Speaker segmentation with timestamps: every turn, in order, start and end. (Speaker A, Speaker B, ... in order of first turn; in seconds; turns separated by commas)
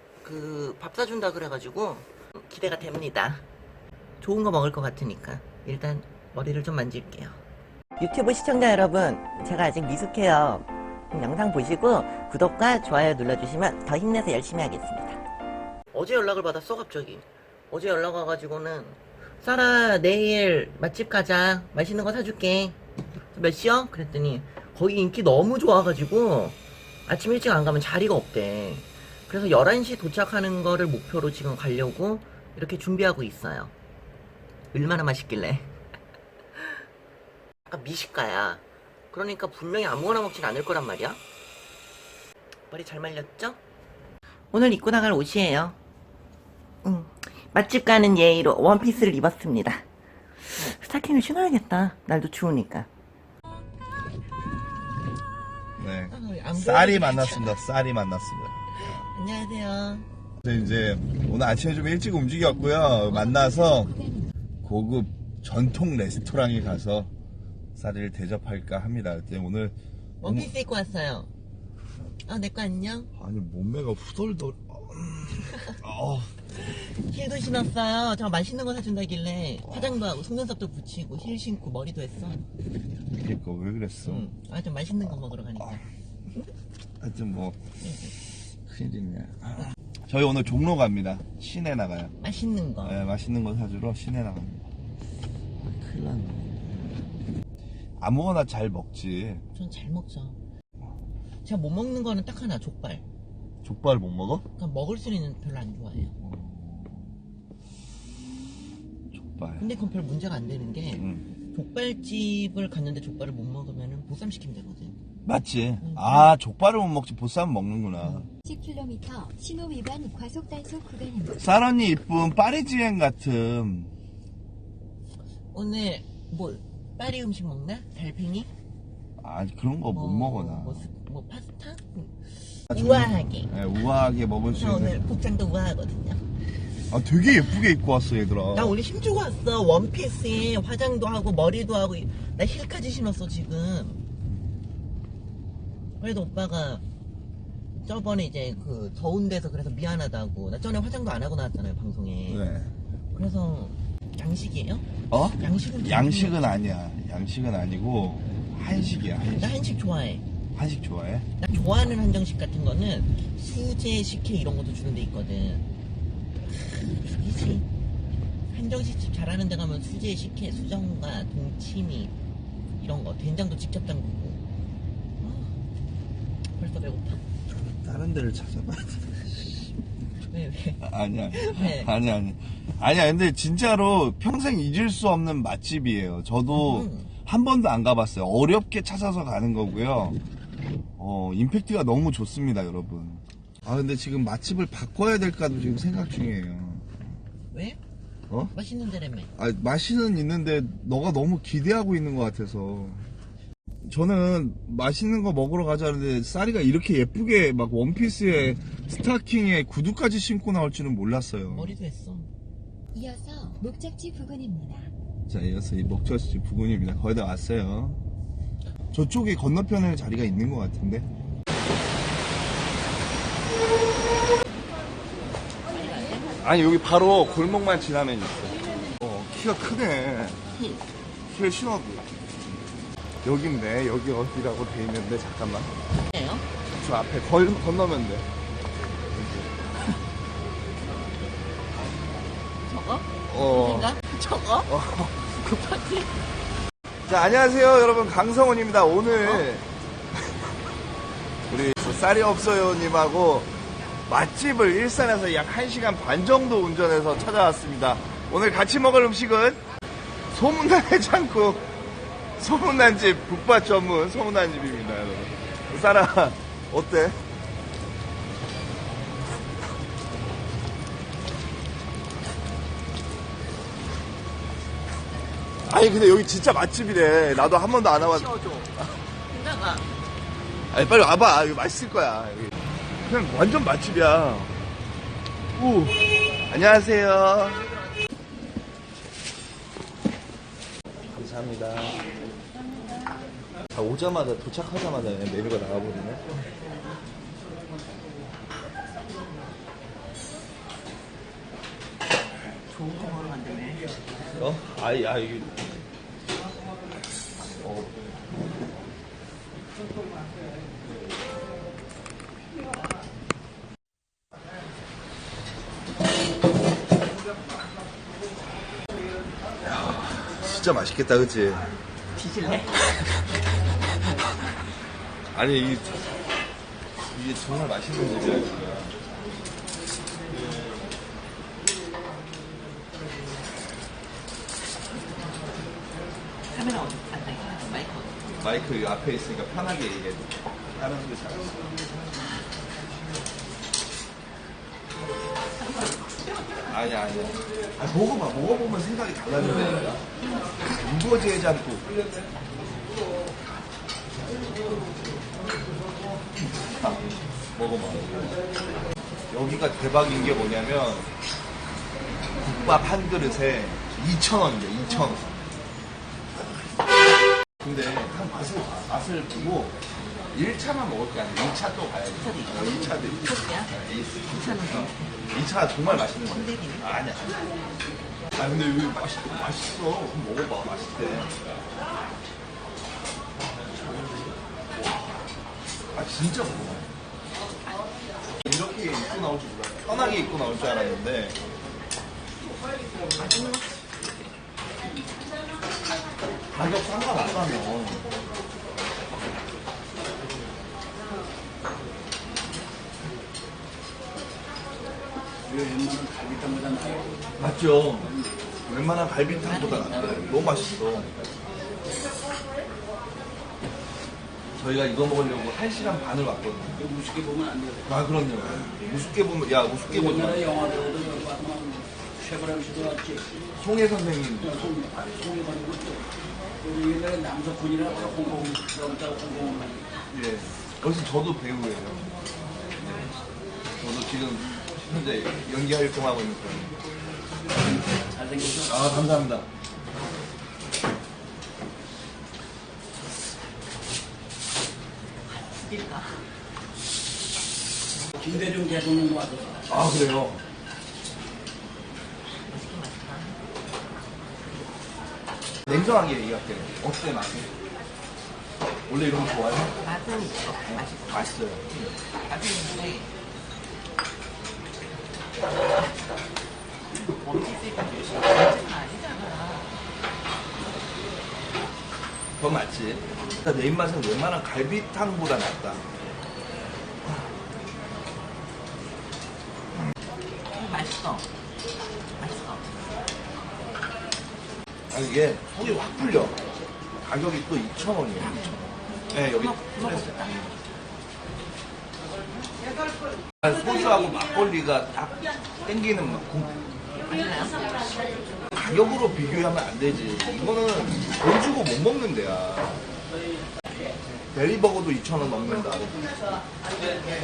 Speaker A: 0.2-3.5, Speaker A: 4.2-7.4, Speaker A: 8.0-15.2, Speaker A: 15.9-22.8, Speaker A: 23.3-33.7, Speaker A: 34.7-35.7, Speaker A: 37.7-41.2, Speaker A: 42.7-43.6, Speaker A: 44.5-45.8, Speaker A: 46.8-49.9, Speaker A: 50.5-52.9, Speaker B: 55.8-59.1, Speaker A: 56.1-57.6, Speaker A: 58.8-60.1, Speaker B: 60.4-64.0, Speaker C: 62.8-64.3, Speaker B: 64.6-67.1, Speaker B: 67.8-70.5, Speaker A: 70.2-71.3, Speaker A: 72.2-73.1, Speaker B: 73.2-76.3, Speaker A: 76.5-82.5, Speaker B: 79.7-80.0, Speaker B: 83.1-84.3, Speaker A: 84.0-85.8, Speaker B: 85.2-85.8, Speaker B: 87.0-87.6, Speaker A: 87.8-88.1, Speaker B: 88.6-92.1, Speaker A: 92.2-93.0, Speaker B: 92.8-94.7, Speaker B: 95.6-97.0, Speaker B: 98.0-99.5, Speaker A: 99.5-100.4, Speaker A: 101.4-103.0, Speaker B: 103.6-104.5, Speaker A: 104.6-106.1, Speaker B: 106.2-107.2, Speaker B: 109.1-109.7, Speaker A: 109.6-115.0, Speaker B: 111.0-111.3, Speaker B: 115.2-118.3, Speaker A: 115.8-116.3, Speaker C: 118.5-121.4, Speaker B: 121.4-123.9, Speaker A: 125.5-128.5, Speaker B: 129.2-130.9, Speaker A: 129.9-133.5, Speaker B: 132.7-135.0, Speaker A: 134.5-136.2, Speaker B: 136.9-138.8, Speaker A: 137.3-137.7, Speaker A: 138.5-144.0, Speaker A: 146.0-146.8, Speaker A: 147.7-152.4, Speaker B: 152.3-152.7, Speaker A: 153.1-156.4, Speaker B: 155.1-159.6, Speaker A: 159.4-160.2, Speaker B: 160.6-161.3, Speaker A: 161.4-165.7, Speaker A: 166.5-167.7, Speaker A: 168.5-172.1, Speaker A: 172.8-174.4, Speaker A: 175.2-175.6, Speaker A: 176.6-177.2, Speaker B: 177.5-179.7, Speaker A: 180.3-181.9, Speaker B: 180.8-190.2, Speaker A: 186.6-187.1, Speaker B: 191.0-196.9, Speaker A: 197.5-197.8, Speaker A: 198.5-199.3, Speaker B: 199.4-203.1, Speaker B: 203.8-211.7, Speaker A: 211.5-212.3, Speaker C: 212.9-214.9, Speaker B: 215.3-218.0, Speaker B: 218.9-221.1, Speaker A: 225.7-226.4, Speaker B: 226.4-230.5, Speaker A: 230.5-230.8, Speaker B: 231.3-232.1, Speaker B: 233.2-235.7, Speaker A: 236.1-236.5, Speaker B: 236.7-238.3, Speaker B: 239.1-239.6, Speaker A: 242.7-246.1, Speaker B: 243.3-243.9, Speaker B: 244.7-245.3, Speaker B: 247.1-249.7, Speaker A: 249.2-249.5, Speaker B: 251.5-253.5, Speaker B: 254.1-259.6, Speaker B: 260.3-261.7, Speaker B: 262.4-267.2, Speaker B: 275.7-278.3, Speaker A: 277.6-279.9, Speaker B: 280.7-284.6, Speaker B: 285.6-287.7, Speaker B: 291.1-292.0, Speaker B: 293.7-296.2, Speaker A: 302.7-303.9, Speaker B: 304.3-305.6, Speaker B: 307.4-308.1, Speaker B: 319.6-321.7, Speaker A: 322.1-323.3, Speaker B: 325.3-326.0, Speaker B: 327.1-329.0, Speaker A: 336.5-338.5, Speaker B: 338.4-341.8, Speaker B: 346.7-350.1, Speaker B: 350.7-351.9, Speaker B: 356.6-357.0, Speaker B: 357.6-358.4, Speaker B: 359.3-361.1, Speaker B: 362.4-365.3, Speaker B: 367.6-369.8, Speaker B: 370.3-377.4, Speaker A: 372.1-373.7, Speaker A: 374.3-375.1, Speaker A: 375.8-376.9, Speaker B: 378.3-381.3, Speaker B: 385.9-386.9, Speaker B: 388.4-391.4, Speaker A: 393.2-393.9, Speaker B: 396.5-398.1, Speaker D: 405.5-407.2, Speaker B: 407.4-408.1, Speaker B: 408.7-411.1, Speaker A: 409.5-410.3, Speaker B: 414.6-416.9, Speaker D: 416.8-417.8, Speaker B: 417.9-420.6, Speaker D: 419.9-423.3, Speaker B: 423.6-424.8, Speaker D: 424.4-426.1, Speaker D: 426.6-429.9, Speaker B: 430.1-432.1, Speaker B: 433.8-436.8, Speaker D: 437.9-438.9, Speaker B: 438.6-439.5, Speaker A: 445.3-446.2, Speaker D: 448.2-449.6, Speaker B: 449.7-450.4, Speaker A: 452.5-453.4, Speaker B: 455.7-457.5, Speaker B: 458.9-459.8, Speaker A: 459.8-463.1, Speaker B: 460.7-461.6, Speaker A: 467.0-469.7, Speaker B: 472.4-475.8, Speaker A: 480.5-481.3, Speaker A: 482.2-482.7, Speaker B: 484.9-486.4, Speaker B: 487.0-490.5, Speaker A: 488.2-490.5, Speaker B: 493.4-496.6, Speaker A: 497.1-497.7, Speaker B: 498.5-502.8, Speaker B: 504.3-506.0